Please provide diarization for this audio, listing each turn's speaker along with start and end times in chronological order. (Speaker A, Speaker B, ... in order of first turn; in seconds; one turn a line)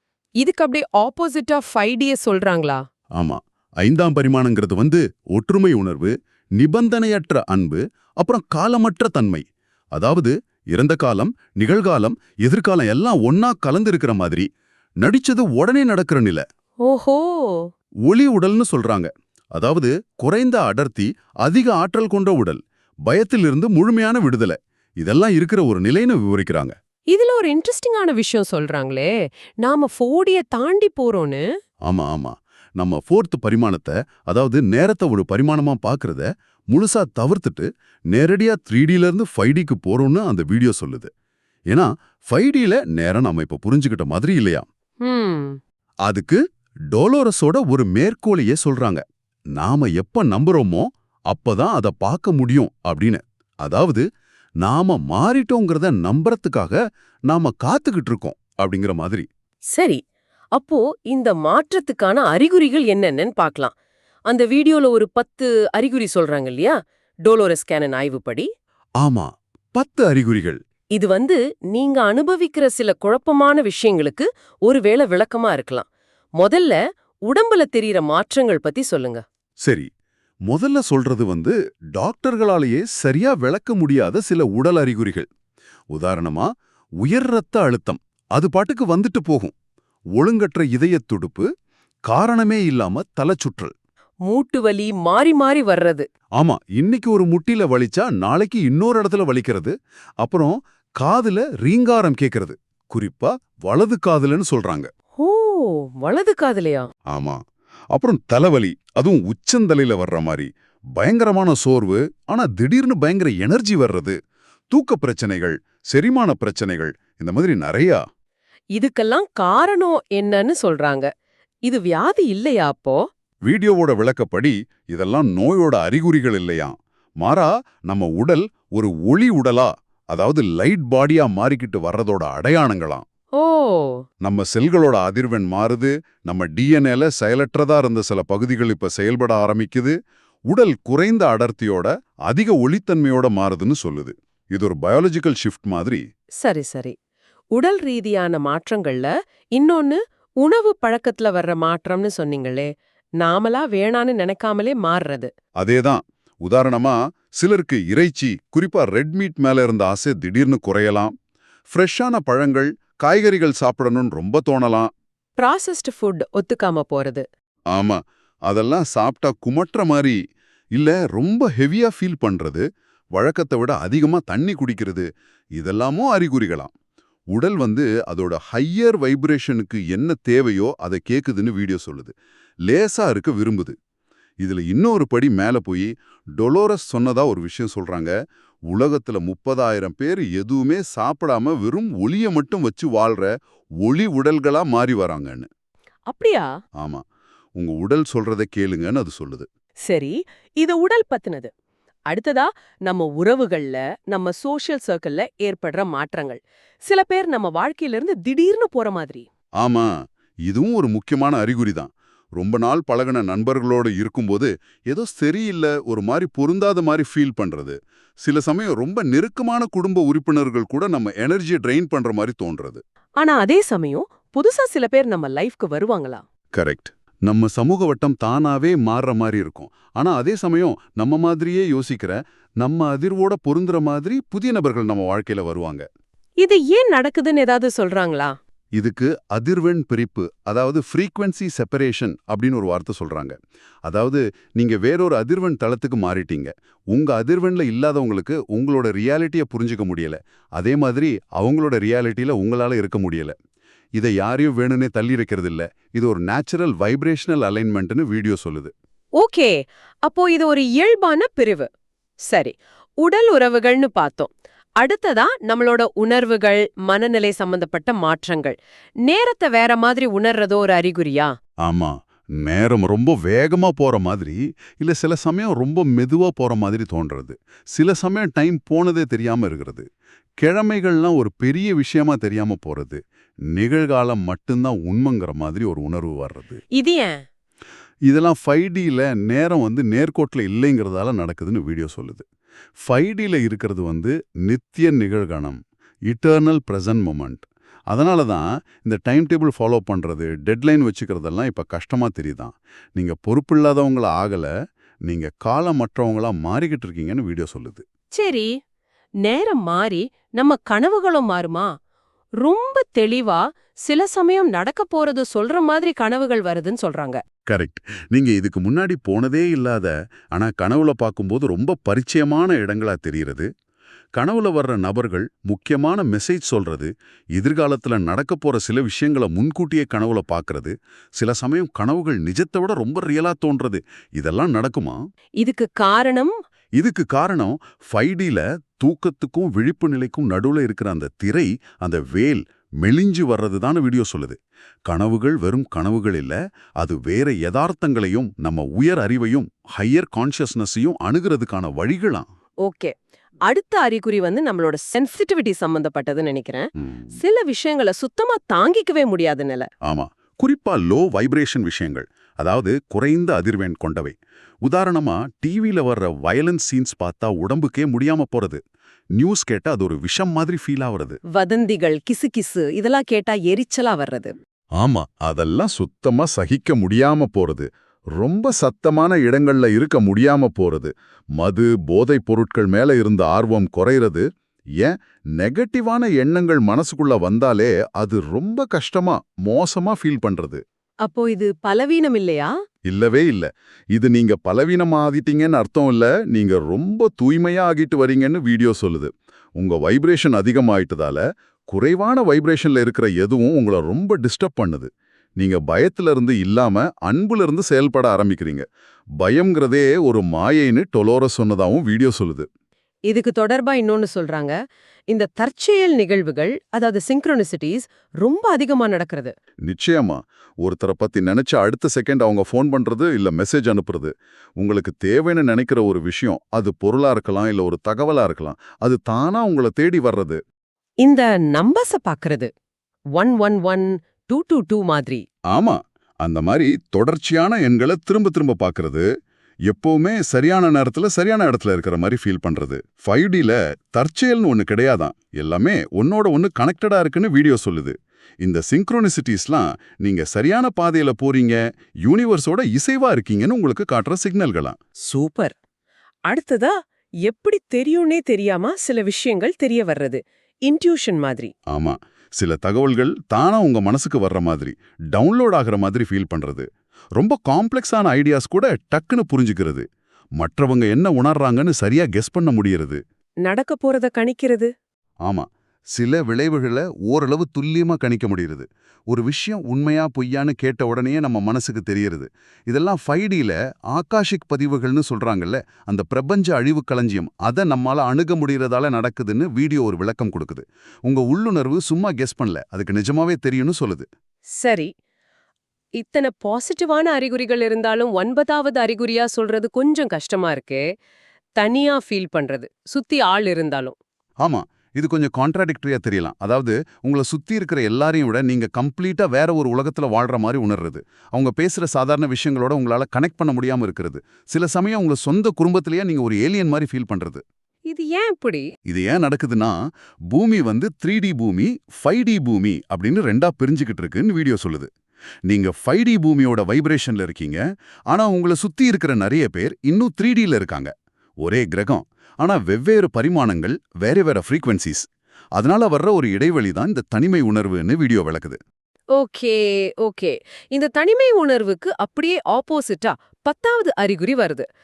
Speaker A: 0.4-2.8
Speaker B: 3.1-14.5
Speaker B: 15.0-16.4
Speaker A: 16.9-17.7
Speaker B: 18.1-26.7
Speaker A: 27.1-29.1
Speaker A: 29.6-31.4
Speaker B: 31.9-41.1
Speaker B: 41.7-44.7
Speaker A: 45.0-45.6
Speaker B: 46.0-46.4
Speaker B: 46.9-49.0
Speaker B: 49.5-54.0
Speaker B: 54.6-56.8
Speaker B: 57.3-59.3
Speaker A: 59.7-60.0
Speaker A: 60.5-63.7
Speaker A: 64.3-68.5
Speaker B: 69.0-70.6
Speaker A: 71.0-75.9
Speaker A: 76.4-79.2
Speaker B: 79.6-79.9
Speaker B: 80.5-85.3
Speaker B: 85.9-86.5
Speaker B: 87.0-89.5
Speaker B: 90.2-91.5
Speaker B: 92.1-93.7
Speaker A: 94.3-96.0
Speaker B: 96.4-104.9
Speaker A: 105.2-106.9
Speaker B: 107.1-107.4
Speaker B: 107.9-114.2
Speaker B: 114.7-118.0
Speaker A: 118.7-121.1
Speaker A: 121.7-123.0
Speaker B: 123.5-133.1
Speaker A: 133.4-134.0
Speaker B: 134.2-139.9
Speaker B: 140.5-146.0
Speaker A: 146.4-146.9
Speaker A: 147.5-152.7
Speaker A: 153.2-155.3
Speaker B: 155.6-161.1
Speaker B: 161.7-164.9
Speaker A: 165.4-167.2
Speaker B: 167.7-170.2
Speaker B: 170.7-176.7
Speaker B: 177.3-182.1
Speaker B: 182.7-183.7
Speaker B: 184.4-188.1
Speaker B: 188.7-193.3
Speaker B: 193.8-195.5
Speaker A: 196.1-196.5
Speaker B: 196.8-197.0
Speaker B: 197.6-199.5
Speaker A: 199.9-201.5
Speaker A: 202.1-209.3
Speaker B: 209.6-209.9
Speaker B: 210.5-222.8
Speaker A: 223.2-226.2
Speaker B: 226.5-235.8
Speaker A: 236.4-238.3
Speaker B: 238.8-253.3
Speaker B: 254.0-258.7
Speaker A: 259.2-261.7
Speaker A: 262.3-271.3
Speaker B: 271.6-279.9
Speaker B: 280.4-283.0
Speaker B: 283.5-286.6
Speaker A: 286.8-287.2
Speaker B: 288.1-292.2
Speaker B: 292.8-304.5
Speaker B: 305.1-307.8
Speaker A: 308.2-308.5
Speaker A: 309.2-311.7
Speaker A: 312.4-317.2
Speaker B: 317.5-323.5
Speaker B: 324.1-335.0
Speaker A: 335.4-336.3
Speaker B: 336.8-352.3
Speaker A: 352.6-352.9
Speaker A: 353.5-359.7
Speaker B: 356.8-357.1
Speaker B: 359.8-368.6
Speaker B: 369.2-371.2
Speaker A: 371.3-374.4
Speaker B: 374.8-377.7
Speaker B: 378.2-384.2
Speaker B: 384.8-390.6
Speaker A: 391.1-392.5
Speaker B: 392.9-408.6
Speaker B: 409.2-412.5
Speaker A: 413.1-414.6
Speaker A: 415.1-419.3
Speaker B: 419.6-430.4
Speaker A: 431.0-432.5
Speaker A: 433.2-435.2
Speaker B: 435.5-439.1
Speaker B: 439.7-454.8
Speaker A: 455.1-455.5
Speaker A: 456.3-456.7
Speaker A: 457.2-461.5
Speaker B: 461.7-469.9
Speaker B: 470.4-473.0
Speaker A: 473.5-474.7
Speaker B: 475.2-494.1
Speaker A: 494.6-494.9
Speaker A: 496.0-500.8
Speaker A: 501.6-504.0
Speaker B: 504.4-517.4
Speaker A: 517.9-518.7
Speaker B: 518.9-519.8
Speaker B: 520.3-524.9
Speaker B: 525.5-538.6
Speaker A: 539.1-544.6